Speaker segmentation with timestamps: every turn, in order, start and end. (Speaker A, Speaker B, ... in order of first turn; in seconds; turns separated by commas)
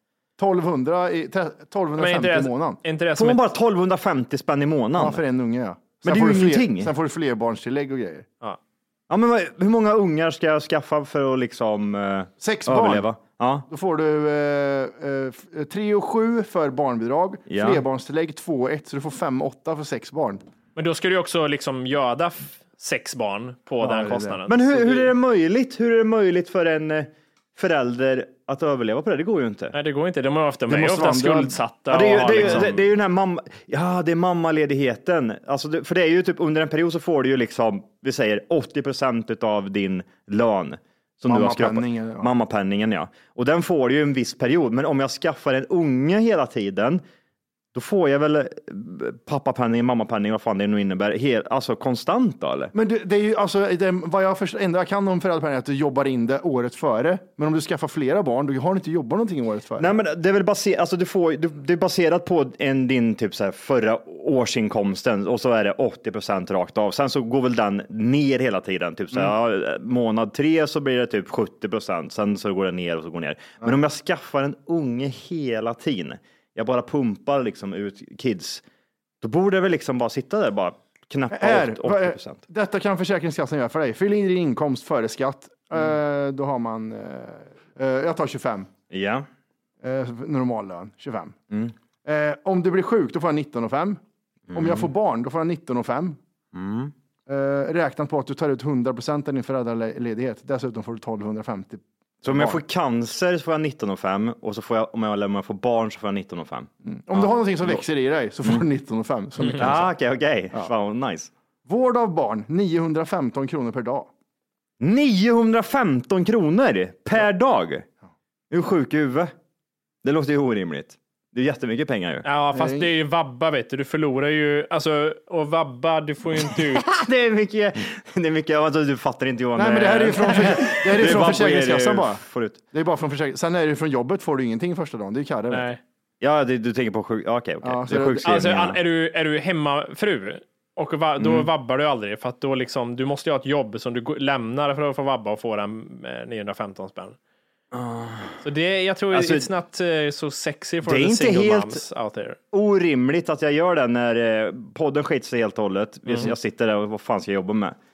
Speaker A: 0.4-2.8, Speaker B: 2.0-3.4, Speaker C: 3.1-5.2, Speaker A: 5.0-8.3, Speaker C: 6.0-6.9, Speaker C: 9.1-13.7, Speaker A: 12.4-13.1, Speaker A: 13.7-20.4, Speaker C: 17.5-17.8, Speaker B: 20.8-25.1, Speaker A: 23.8-24.4, Speaker C: 24.5-29.7, Speaker B: 29.7-32.7, Speaker A: 30.7-31.6, Speaker C: 31.9-47.0, Speaker A: 32.3-32.8, Speaker A: 41.3-42.3, Speaker C: 47.7-52.7, Speaker A: 52.7-59.9, Speaker C: 59.8-78.6, Speaker C: 79.2-82.4, Speaker A: 81.3-88.7, Speaker C: 88.9-89.3, Speaker A: 89.8-91.4, Speaker A: 92.0-94.0, Speaker C: 94.5-94.9, Speaker A: 94.5-96.2, Speaker C: 96.5-96.9, Speaker A: 97.3-102.6, Speaker C: 102.2-107.8, Speaker A: 106.8-109.9, Speaker C: 109.5-111.3, Speaker A: 111.7-114.1, Speaker C: 114.8-117.9, Speaker C: 118.5-119.3, Speaker C: 120.0-122.3, Speaker B: 122.2-126.8, Speaker A: 122.5-122.9, Speaker C: 126.5-132.6, Speaker A: 129.6-135.7, Speaker B: 135.5-135.8, Speaker C: 136.2-138.8, Speaker A: 137.6-138.4, Speaker B: 138.2-147.2, Speaker C: 141.2-141.5, Speaker C: 147.7-148.4, Speaker B: 148.4-152.4, Speaker C: 149.1-149.5, Speaker C: 150.8-151.8, Speaker C: 152.5-157.8, Speaker B: 156.1-156.3